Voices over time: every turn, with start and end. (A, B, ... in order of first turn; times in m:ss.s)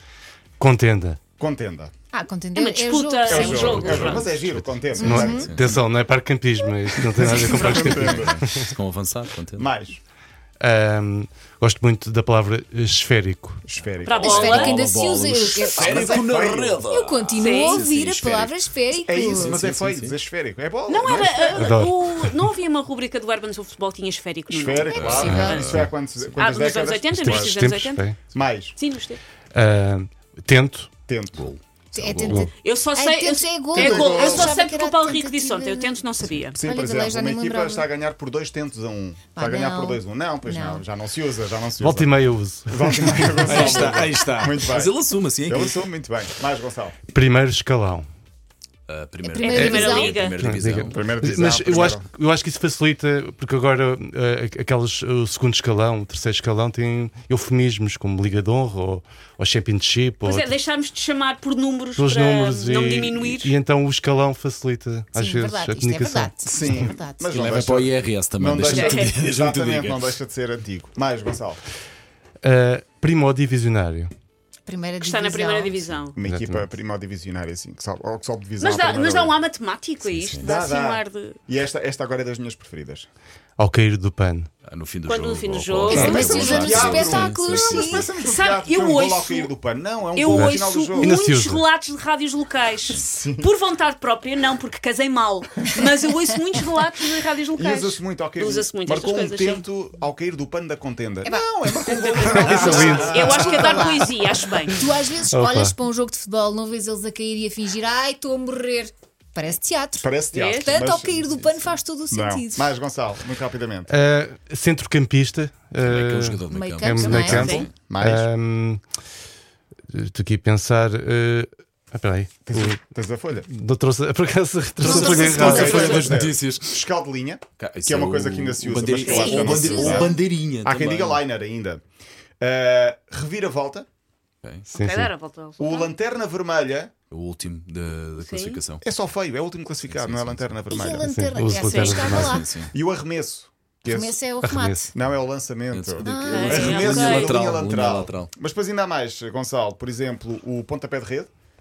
0:00.6-0:01.2 A
0:01.4-0:01.9 B
0:02.1-0:04.3 C
0:02.6-0:04.3 D
0:03.3-0:05.8 B
0:04.3-0:08.7 A
0:05.0-0:05.5 C
0:05.2-0:05.7 E
0:07.2-0:09.7 E
0:07.2-0:08.4 B
0:09.6-0:10.0 B
0:10.6-0:13.6 A
0:13.7-0:14.7 B
0:14.0-0:14.8 D
0:14.2-0:19.6 C
0:14.2-0:18.6 E
0:15.8-0:16.8 B
0:17.4-0:17.9 D
0:19.1-0:21.7 B
0:19.2-0:20.2 E
0:20.9-0:25.7 D
0:21.6-0:22.3 A
0:24.5-0:27.6 B
0:24.9-0:25.8 C
0:25.0-0:26.4 E
0:25.3-0:25.9 A
0:26.4-0:28.0 D
0:27.1-0:28.2 A
0:28.3-0:28.8 B
0:28.8-0:29.2 D
0:29.5-0:30.9 A
0:31.1-0:31.5 B
0:31.4-0:32.5 E
0:31.9-0:36.0 C
0:32.2-0:32.5 A
0:32.6-0:36.6 D
0:33.7-0:34.6 B
0:36.6-0:42.2 B
0:36.6-0:37.9 C
0:39.4-0:40.8 C
0:41.8-0:43.6 A
0:42.7-0:47.0 B
0:43.4-0:45.8 E
0:43.6-0:44.0 C
0:47.1-0:48.1 A
0:48.9-0:50.9 E
0:49.2-0:50.2 C
0:49.4-0:50.4 D
0:49.5-1:00.5 A
0:50.9-0:52.1 B
1:00.2-1:03.6 D
1:02.0-1:06.9 A
1:05.2-1:07.4 C
1:06.4-1:11.6 B
1:07.2-1:10.0 E
1:08.6-1:09.1 D
1:12.4-1:14.1 A
1:14.7-1:15.8 C
1:15.0-1:16.2 D
1:16.2-1:19.4 B
1:16.2-1:16.7 A
1:18.6-1:21.4 D
1:20.1-1:20.5 E
1:20.4-1:23.1 B
1:23.6-1:24.5 A
1:24.6-1:28.0 E
1:25.1-1:27.1 D
1:25.9-1:28.2 C
1:25.9-1:26.3 A
1:26.1-1:31.2 B
1:28.1-1:29.5 D
1:30.2-1:39.6 D
1:30.3-1:31.6 A
1:32.9-1:33.5 B
1:37.6-1:44.0 B
1:41.2-1:44.0 C
1:41.9-1:44.8 D
1:42.4-1:44.0 A
1:44.8-1:52.7 C
1:45.2-1:45.8 A
1:50.0-1:53.9 B
1:50.3-1:50.8 D
1:53.9-1:58.8 A
1:55.8-1:57.7 E
1:56.5-1:57.5 C
1:57.3-1:57.7 D
1:57.4-1:58.3 B
1:59.9-2:02.8 A
2:02.4-2:03.5 B
2:03.4-2:06.0 A
2:04.8-2:06.1 D
2:04.8-2:06.8 E
2:04.9-2:11.8 B
2:07.6-2:11.2 E
2:08.9-2:10.1 D
2:09.1-2:10.2 C
2:12.4-2:13.9 B
2:14.4-2:14.7 E
2:14.7-2:15.9 D
2:14.8-2:15.1 A
2:15.6-2:16.9 B
2:17.1-2:18.8 E
2:18.2-2:18.6 D
2:18.8-2:21.1 B
2:19.9-2:20.6 E
2:20.7-2:22.5 C
2:21.0-2:22.4 A
2:21.5-2:22.1 D
2:22.1-2:22.7 E
2:22.7-2:24.2 B
2:23.9-2:24.9 C
2:24.4-2:24.9 A
2:24.9-2:31.3 B
2:25.7-2:28.3 E
2:26.0-2:26.8 C
2:26.2-2:27.4 D